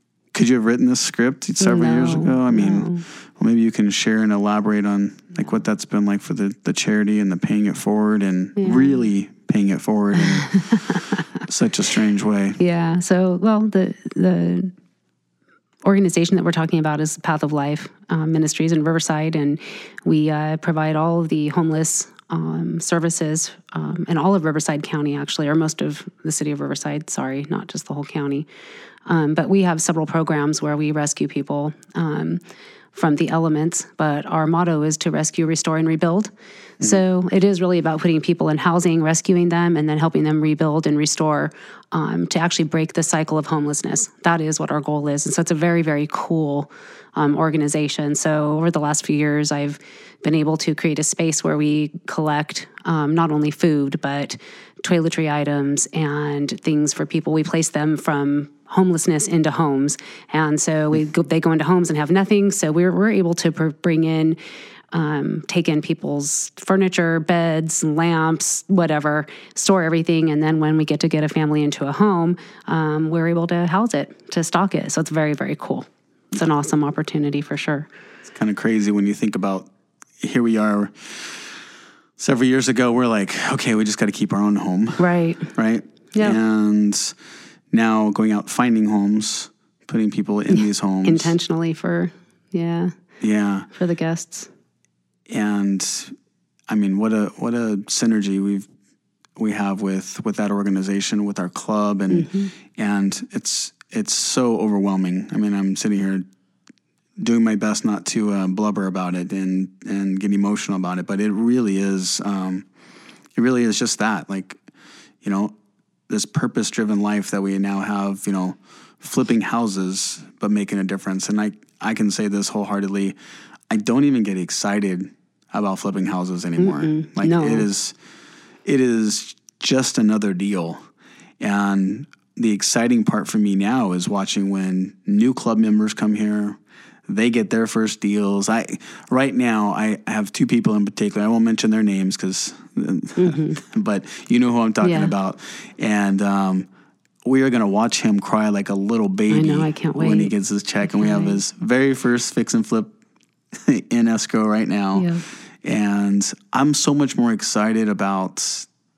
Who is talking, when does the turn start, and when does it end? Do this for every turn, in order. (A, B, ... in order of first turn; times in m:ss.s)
0:00.3-0:10.6 A
0:01.6-0:03.0 B
0:08.6-0:09.0 B
0:10.2-0:11.2 B
0:11.4-0:12.6 A
0:12.6-0:14.7 B
0:15.8-0:28.5 B
0:29.0-0:32.4 B
0:32.9-1:04.4 B
1:04.9-1:17.9 B
1:18.2-1:19.7 A
1:20.2-1:21.6 A
1:22.2-1:27.1 A
1:25.0-1:25.5 B
1:27.7-1:31.3 A
1:30.5-1:32.9 B
1:33.2-1:33.7 A
1:33.8-1:34.5 B
1:35.3-1:36.1 A
1:36.7-1:38.7 A
1:39.4-1:46.2 A
1:42.1-1:42.5 B
1:47.2-1:52.6 A
1:53.3-1:54.6 A
1:55.2-1:55.5 A
1:56.1-2:03.2 A
2:03.7-2:07.9 A
2:06.6-2:07.7 B
2:08.6-2:10.8 A
2:11.4-2:26.7 A
2:23.2-2:23.6 B
2:24.8-2:25.1 B
2:27.2-2:32.9 A
2:29.3-2:30.3 B
2:30.8-2:31.4 B
2:33.5-2:35.1 A
2:35.0-2:35.2 B
2:35.6-2:38.7 A